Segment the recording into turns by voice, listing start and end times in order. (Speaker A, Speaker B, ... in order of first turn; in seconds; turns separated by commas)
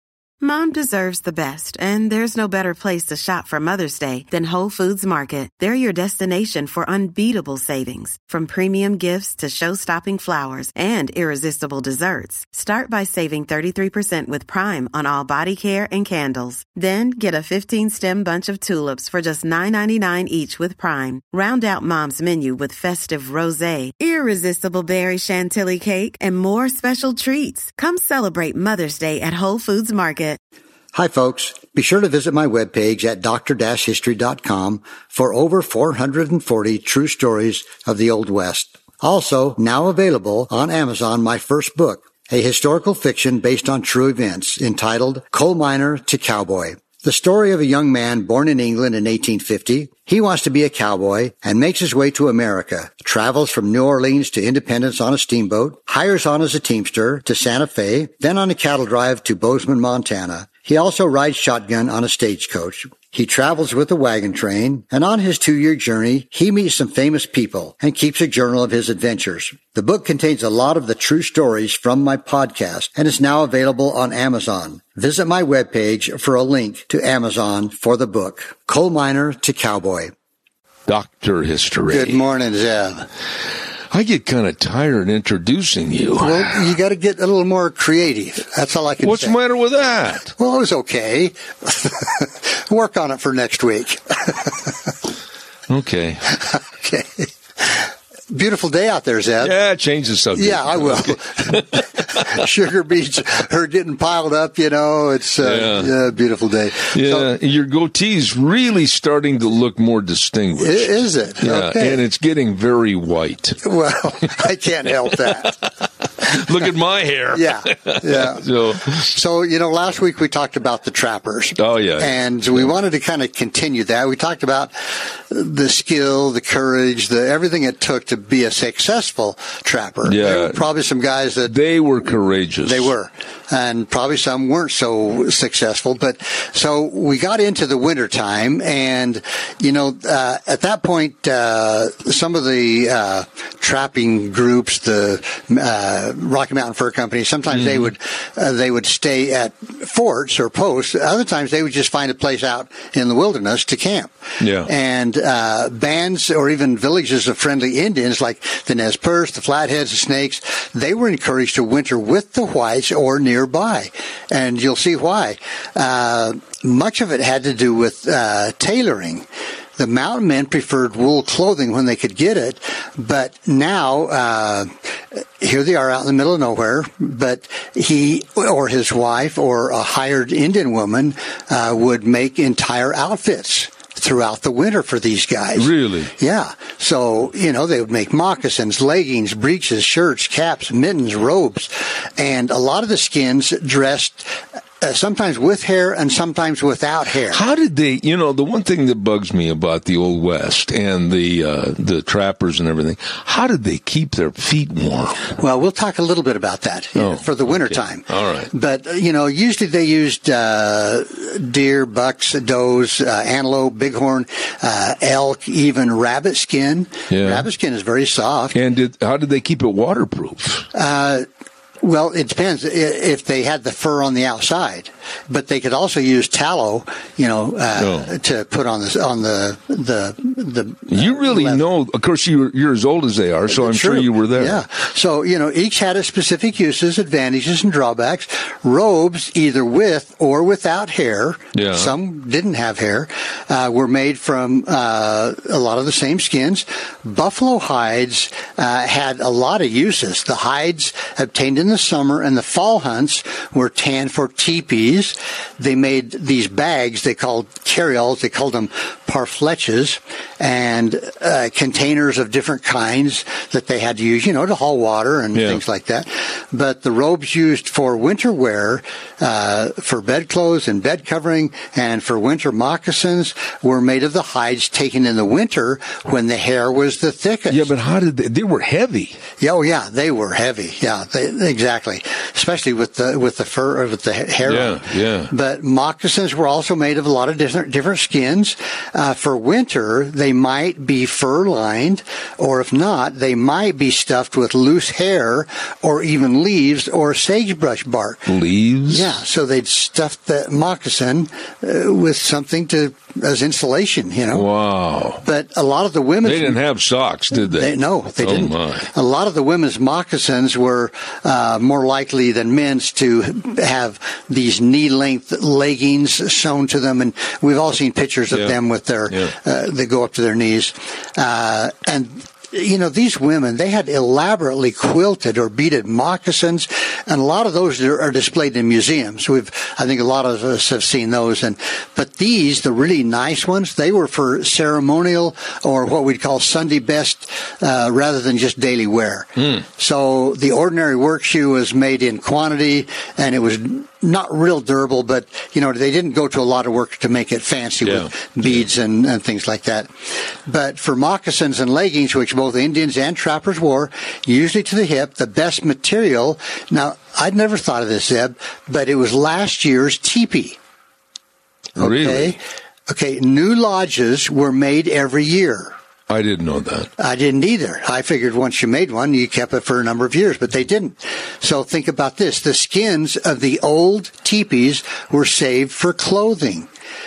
Speaker A: 0.4-30.4, Speaker B: 30.9-80.1, Speaker C: 80.9-82.2, Speaker B: 81.9-83.1, Speaker C: 83.9-86.6, Speaker B: 86.2-89.4, Speaker C: 89.0-90.3, Speaker B: 90.3-94.9, Speaker C: 95.7-96.4, Speaker B: 96.4-99.5, Speaker C: 99.4-102.4, Speaker B: 100.3-107.3, Speaker C: 105.4-105.9, Speaker C: 106.9-113.6, Speaker B: 110.6-112.0, Speaker B: 113.6-115.6, Speaker C: 115.1-119.1, Speaker B: 117.3-131.6, Speaker C: 121.6-122.7, Speaker C: 130.1-130.6, Speaker C: 131.5-132.9, Speaker B: 132.6-197.4, Speaker C: 147.5-147.9, Speaker C: 154.4-154.7, Speaker C: 185.6-186.1, Speaker C: 197.3-205.3, Speaker B: 205.3-218.6, Speaker C: 207.0-208.5, Speaker C: 217.1-217.5, Speaker C: 218.5-220.7, Speaker B: 220.7-221.3, Speaker B: 221.8-231.6, Speaker C: 227.8-228.1, Speaker C: 230.9-234.6, Speaker B: 233.5-277.7, Speaker C: 241.6-241.9, Speaker C: 265.3-265.6, Speaker C: 277.5-279.2, Speaker B: 279.4-298.3, Speaker C: 284.4-285.3, Speaker C: 298.3-299.1, Speaker B: 298.9-304.5, Speaker C: 304.3-305.2, Speaker B: 305.2-306.6, Speaker C: 306.2-308.9, Speaker B: 307.3-360.6, Speaker C: 318.3-318.6, Speaker C: 339.4-339.6, Speaker C: 347.8-348.6, Speaker C: 361.8-362.4, Speaker B: 361.8-365.8, Speaker C: 366.1-366.9, Speaker B: 367.0-376.7